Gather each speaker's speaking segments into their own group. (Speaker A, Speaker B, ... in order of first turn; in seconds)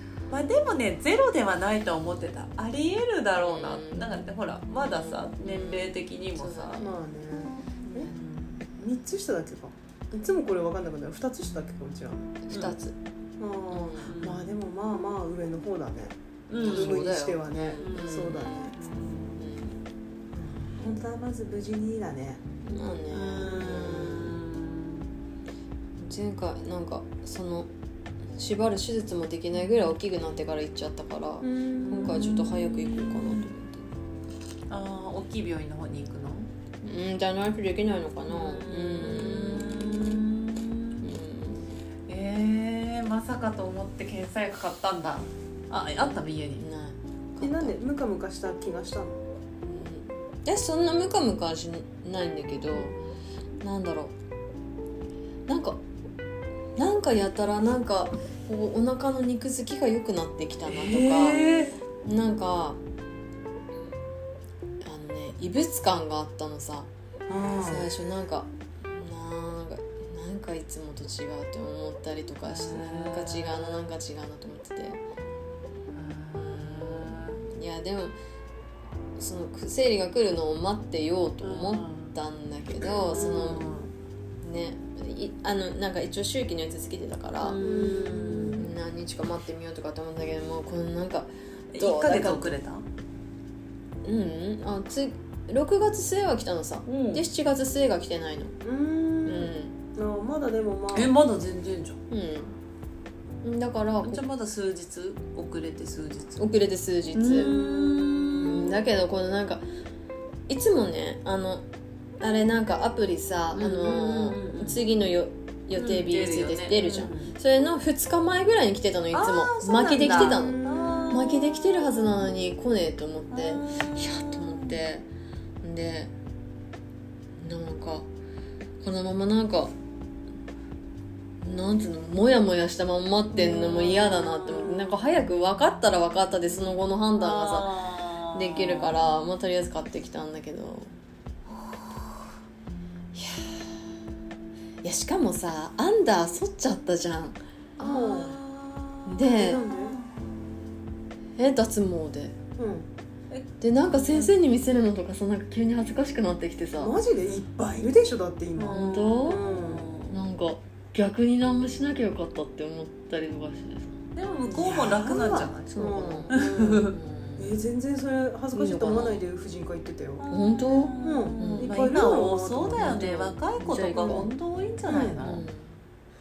Speaker A: 0.3-6.9, 7.9-8.6, 12.5-12.8, 14.1-14.5, 16.5-17.0, 17.8-19.4, 23.1-25.0, 31.8-33.5, 34.7-36.5, 38.3-41.0, 42.1-46.6, 60.7-61.7, 72.5-73.8, 75.9-77.4, 81.4-82.1, 83.0-83.9, 87.4-88.7, 91.7-92.8, 96.8-97.2, 100.9-102.0, 104.0-106.5, 107.1-108.7, 113.5-114.8, 115.7-117.3, 119.1-121.9, 123.3-124.8, 133.3-134.9, 137.2-139.0, 147.8-149.1, 149.7-150.2, 153.3-154.3, 158.6-160.2, 164.1-165.7, 166.3-166.9, 170.2-175.4
Speaker B: 3.4-4.2, 4.8-6.9, 8.0-8.4, 12.4-12.9, 13.7-14.1, 16.6-18.6, 19.4-19.8, 22.6-24.4, 26.0-27.7, 28.4-33.9, 36.8-40.2, 41.0-41.8, 45.8-47.8, 49.6-53.0, 53.6-54.1, 55.5-55.8, 56.8-61.4, 62.0-62.8, 64.8-66.9, 67.6-75.0, 76.3-78.2, 79.2-83.7, 84.4-87.6, 88.5-92.5, 94.0-98.5, 99.2-99.7, 102.1-102.5, 103.4-104.2, 106.4-107.5, 108.4-109.6, 110.5-111.7, 112.2-125.1, 125.6-126.1, 127.4-128.1, 128.8-129.7, 131.4-137.8, 138.3-140.9, 143.1-143.9, 144.8-147.4, 149.1-149.6, 151.4-152.3, 153.6-156.9, 158.7-159.4, 160.1-164.0, 165.7-166.4, 166.9-167.6, 168.5-169.3, 170.3-171.7, 172.8-174.3, 175.2-175.8
Speaker C: 6.8-8.1, 8.7-12.4, 13.4-18.8, 20.3-22.4, 23.4-24.2, 31.4-32.1, 47.4-49.2, 67.3-67.9, 87.6-88.5, 98.6-101.2, 107.3-108.1, 120.2-121.1, 147.8-148.4, 149.2-150.0, 152.6-152.9, 156.8-159.9, 164.5-170.2, 171.0-173.0, 174.9-175.2